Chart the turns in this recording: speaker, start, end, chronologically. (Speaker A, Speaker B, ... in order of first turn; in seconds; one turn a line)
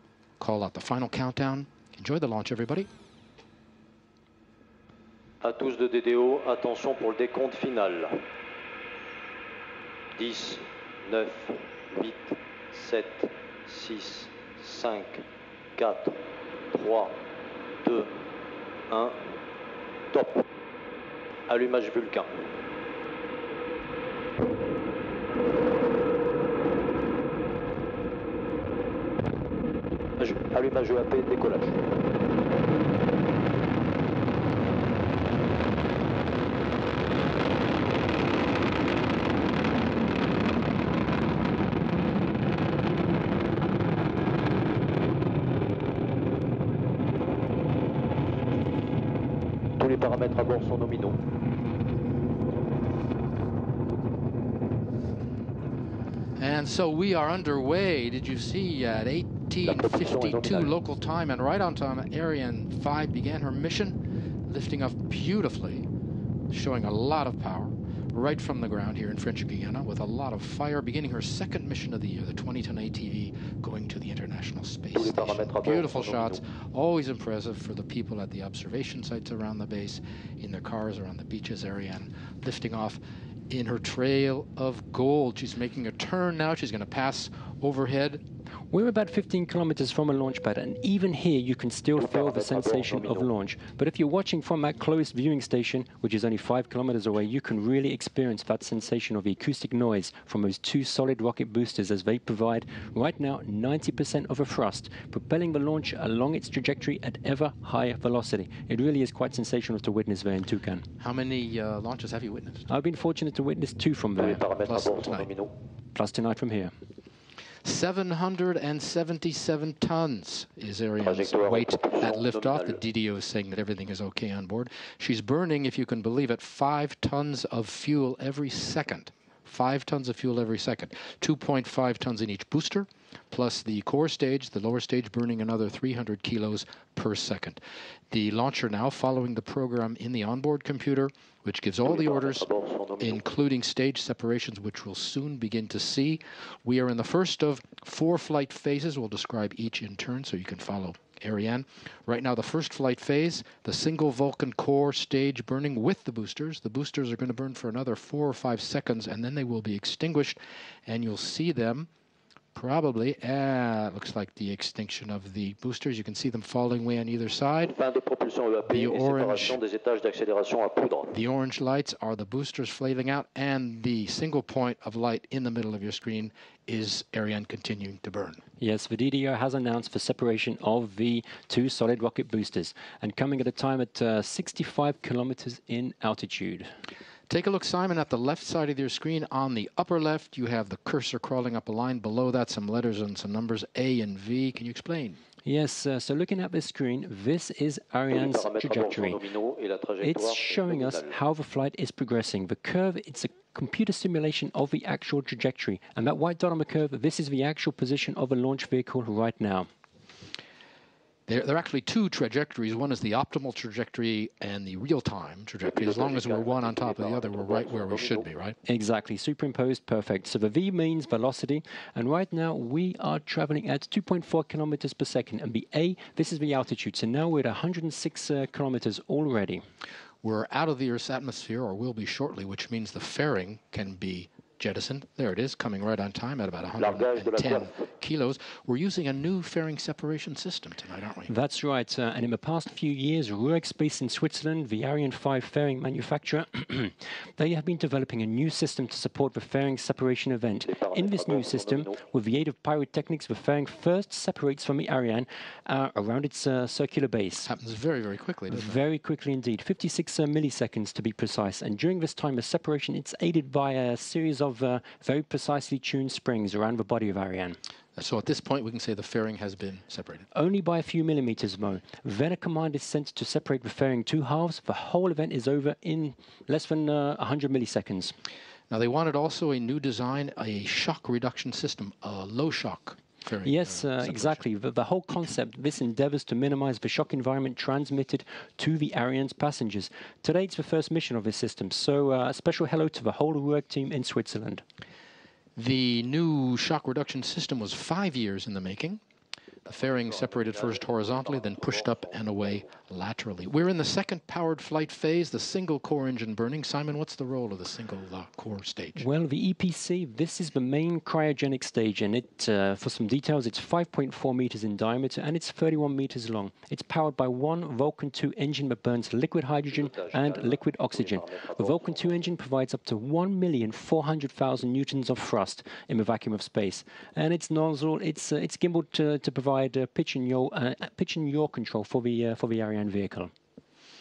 Speaker A: 0.4-2.9
Speaker B: 5.4-8.1
Speaker B: 10.2-15.2
Speaker B: 15.8-16.2
Speaker B: 16.7-17.2
Speaker B: 17.8-18.2
Speaker B: 18.9-19.4
Speaker B: 20.1-20.4
Speaker B: 21.5-22.4
Speaker B: 30.2-31.9
Speaker B: 49.8-51.2
Speaker A: 56.4-65.9
Speaker B: 59.6-60.8
Speaker A: 66.5-88.2
Speaker B: 74.9-76.4
Speaker C: 88.7-110.8
Speaker B: 92.0-93.3
Speaker A: 111.0-112.7
Speaker C: 112.7-114.4
Speaker B: 114.2-115.5
Speaker A: 114.6-115.3
Speaker C: 116.0-116.7
Speaker A: 117.6-137.6
Speaker B: 121.0-122.8
Speaker A: 138.1-142.5
Speaker B: 141.8-143.2
Speaker A: 143.0-161.9
Speaker A: 162.5-167.7
Speaker B: 167.6-171.2
Speaker A: 168.7-169.6
Speaker A: 171.1-178.4
Speaker C: 178.6-186.7
Speaker A: 187.3-195.2
Speaker C: 195.4-199.2
Speaker B: 198.1-201.2
Speaker C: 200.0-209.7
Speaker A: 211.3-218.6
Speaker B: 215.6-218.3
Speaker C: 218.7-229.6
Speaker A: 230.2-241.3
Speaker B: 236.8-237.8
Speaker C: 241.3-257.5
Speaker B: 250.7-252.0
Speaker A: 257.4-258.8
Speaker C: 258.5-267.6
Speaker A: 268.0-270.3
Speaker C: 270.4-278.1
Speaker A: 278.7-284.4
Speaker C: 283.4-294.6
Speaker A: 295.6-299.0
Speaker B: 299.7-302.7
Speaker A: 299.7-309.0
Speaker C: 309.0-333.3
Speaker B: 319.6-322.2